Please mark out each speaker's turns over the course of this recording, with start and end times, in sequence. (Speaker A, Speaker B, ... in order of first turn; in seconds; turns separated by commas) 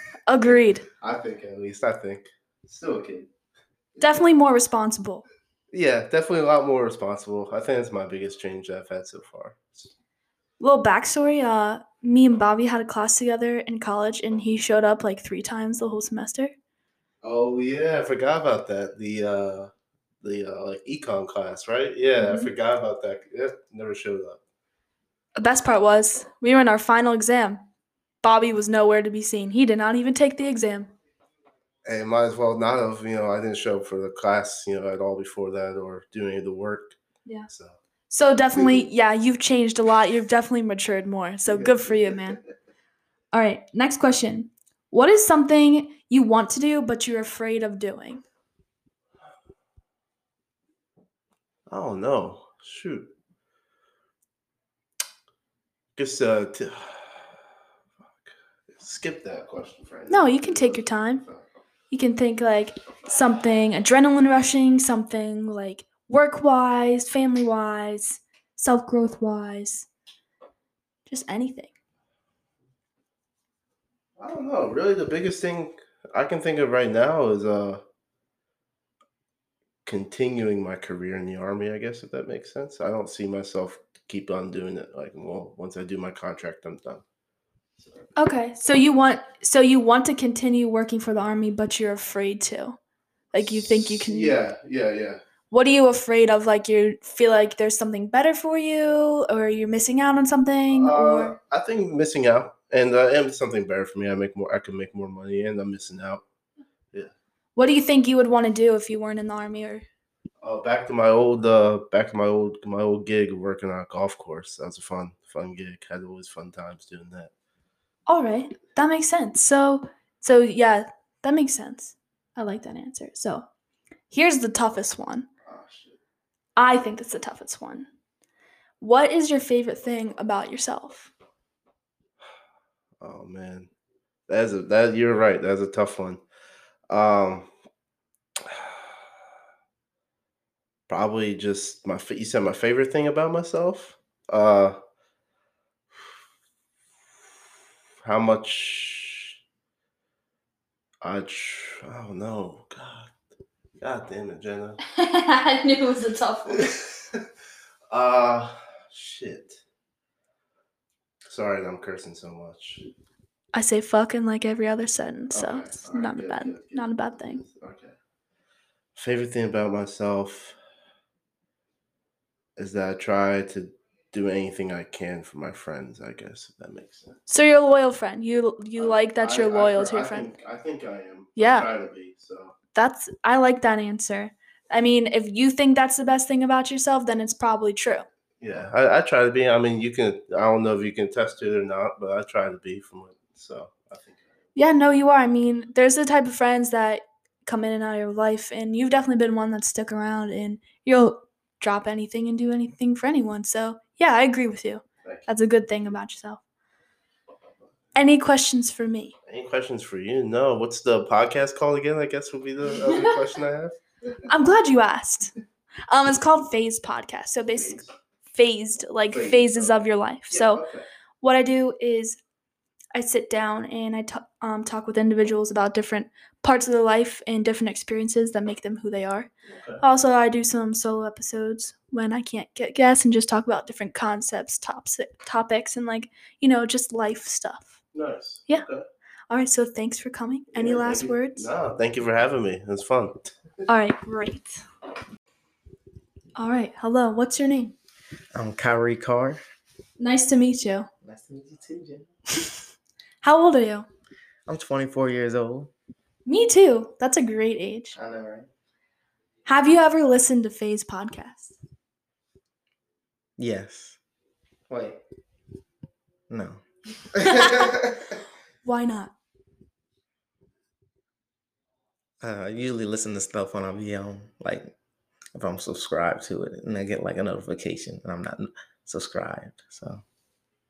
Speaker A: 0.3-0.8, Speaker B: 1.0-3.3, Speaker A: 4.0-5.2, Speaker B: 5.7-9.9, Speaker A: 10.6-16.5, Speaker B: 17.2-19.7, Speaker B: 20.2-24.4, Speaker A: 22.2-22.5, Speaker A: 25.4-27.6, Speaker A: 28.2-30.9, Speaker B: 31.9-37.0, Speaker B: 37.5-37.8, Speaker A: 38.1-42.4, Speaker B: 41.5-41.8, Speaker A: 43.3-48.2, Speaker B: 51.7-53.1, Speaker B: 56.0-57.3, Speaker B: 58.7-61.4, Speaker A: 60.1-61.2, Speaker A: 61.9-69.9, Speaker A: 71.1-71.7, Speaker B: 74.2-77.8, Speaker B: 79.8-87.0, Speaker B: 87.8-88.1, Speaker A: 88.2-92.8, Speaker A: 93.3-94.4, Speaker B: 93.4-95.2, Speaker A: 95.5-101.3, Speaker B: 100.7-106.2, Speaker A: 107.6-109.8, Speaker B: 110.4-117.3, Speaker A: 118.1-123.5, Speaker A: 124.1-125.3, Speaker B: 125.5-126.0, Speaker A: 126.6-127.9, Speaker A: 128.8-131.1, Speaker B: 133.0-133.7, Speaker B: 134.3-136.2, Speaker B: 136.9-137.5, Speaker B: 138.4-138.8, Speaker B: 140.9-144.8, Speaker B: 148.0-149.3, Speaker B: 151.0-153.1, Speaker B: 153.8-154.8, Speaker A: 154.8-156.7, Speaker B: 156.5-157.2, Speaker B: 157.9-159.6, Speaker B: 161.3-162.8, Speaker A: 163.5-167.4, Speaker B: 165.3-167.9, Speaker B: 168.9-170.6, Speaker B: 172.6-177.2, Speaker A: 177.3-180.3, Speaker B: 178.8-182.5, Speaker A: 181.4-181.7, Speaker A: 182.8-188.1, Speaker B: 188.4-194.2, Speaker A: 194.6-206.4, Speaker A: 207.9-209.2, Speaker B: 209.3-213.8, Speaker A: 214.3-215.3, Speaker A: 215.9-217.8, Speaker B: 217.6-217.8, Speaker A: 218.3-220.6, Speaker B: 219.1-219.8, Speaker B: 220.3-220.8, Speaker A: 221.2-222.2, Speaker A: 222.9-237.8, Speaker B: 229.5-229.8, Speaker B: 237.9-238.9, Speaker A: 239.3-241.5, Speaker B: 240.5-243.3, Speaker A: 243.7-244.6, Speaker A: 246.4-247.8, Speaker C: 248.3-249.4, Speaker A: 250.0-250.9, Speaker C: 251.0-252.1, Speaker A: 253.2-253.9, Speaker C: 254.5-255.7, Speaker A: 256.3-258.0, Speaker C: 257.9-258.5, Speaker A: 259.4-261.6, Speaker C: 263.4-264.0, Speaker C: 264.7-265.0, Speaker C: 266.3-266.6, Speaker C: 267.1-268.2, Speaker A: 267.2-267.7, Speaker A: 268.6-269.1, Speaker C: 272.2-274.7, Speaker C: 275.4-280.0